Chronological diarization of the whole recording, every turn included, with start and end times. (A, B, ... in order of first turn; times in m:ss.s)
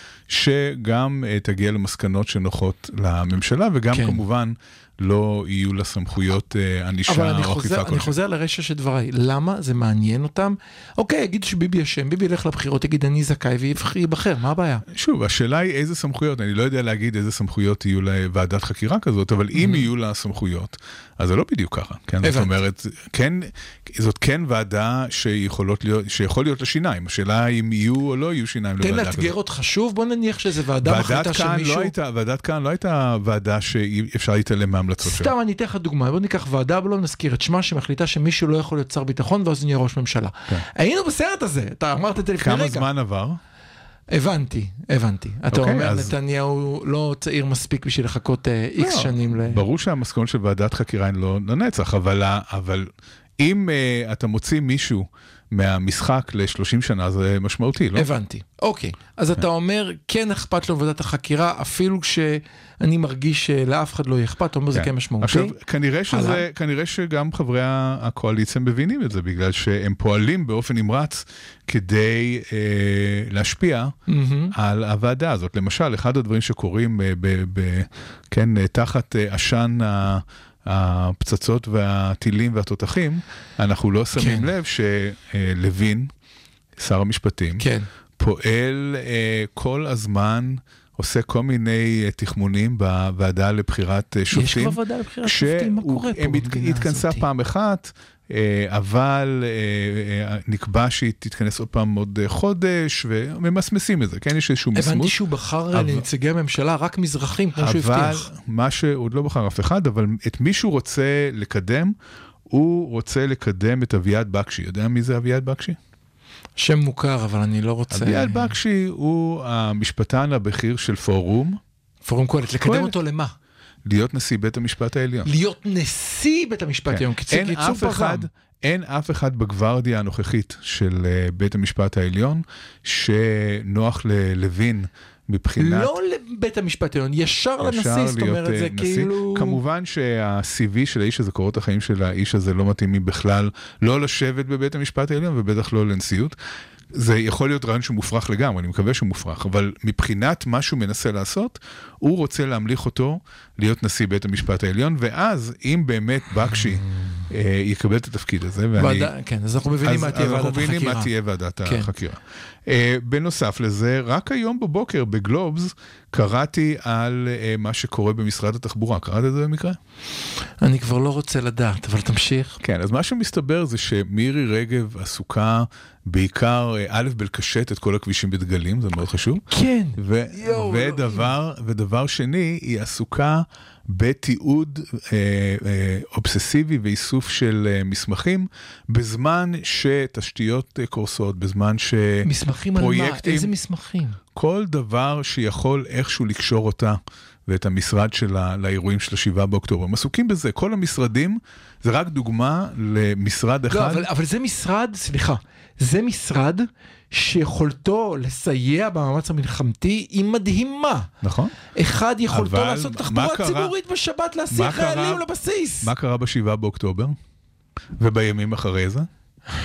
0:00.3-0:08.1 A
0:03.9-0:04.2 B
0:07.1-0:14.8 B
0:14.9-0:29.3 A
0:19.6-0:19.9 B
0:22.2-0:22.5 B
0:28.8-0:31.9 B
0:30.8-0:35.3 A
0:35.0-0:42.9 B
0:42.4-0:43.4 A
0:44.1-0:49.6 B
0:45.5-0:46.1 A
0:48.8-0:58.1 A
0:58.0-1:05.6 B
1:04.7-1:14.0 A
1:06.1-1:06.4 B
1:14.1-1:14.5 B
1:14.5-1:26.1 A
1:24.2-1:24.5 B
1:26.8-1:27.7 A
1:27.6-1:27.9 B
1:28.2-1:45.2 A
1:34.3-1:37.2 B
1:44.8-1:48.3 B
1:45.7-1:46.0 A
1:47.6-1:52.0 A
1:52.5-1:55.8 A
1:56.6-1:58.6 B
1:57.9-2:01.6 A
2:02.0-2:03.3 B
2:02.6-2:03.0 A
2:03.8-2:05.3 A
2:05.2-2:08.3 B
2:06.9-2:15.9 A
2:15.6-2:19.6 B
2:17.6-2:26.4 A
2:26.9-2:39.1 A
2:38.8-2:41.1 B
2:39.8-2:49.8 A
2:41.6-2:41.9 B
2:50.6-2:52.6 B
2:52.6-3:13.5 A
2:59.5-3:01.3 B
3:12.2-3:14.2 B
3:14.4-3:24.1 A
3:23.7-3:31.1 B
3:31.2-3:31.6 A
3:31.7-3:35.9 B
3:32.3-3:33.8 A
3:34.5-3:35.3 A
3:35.8-3:37.2 A
3:38.0-3:39.1 A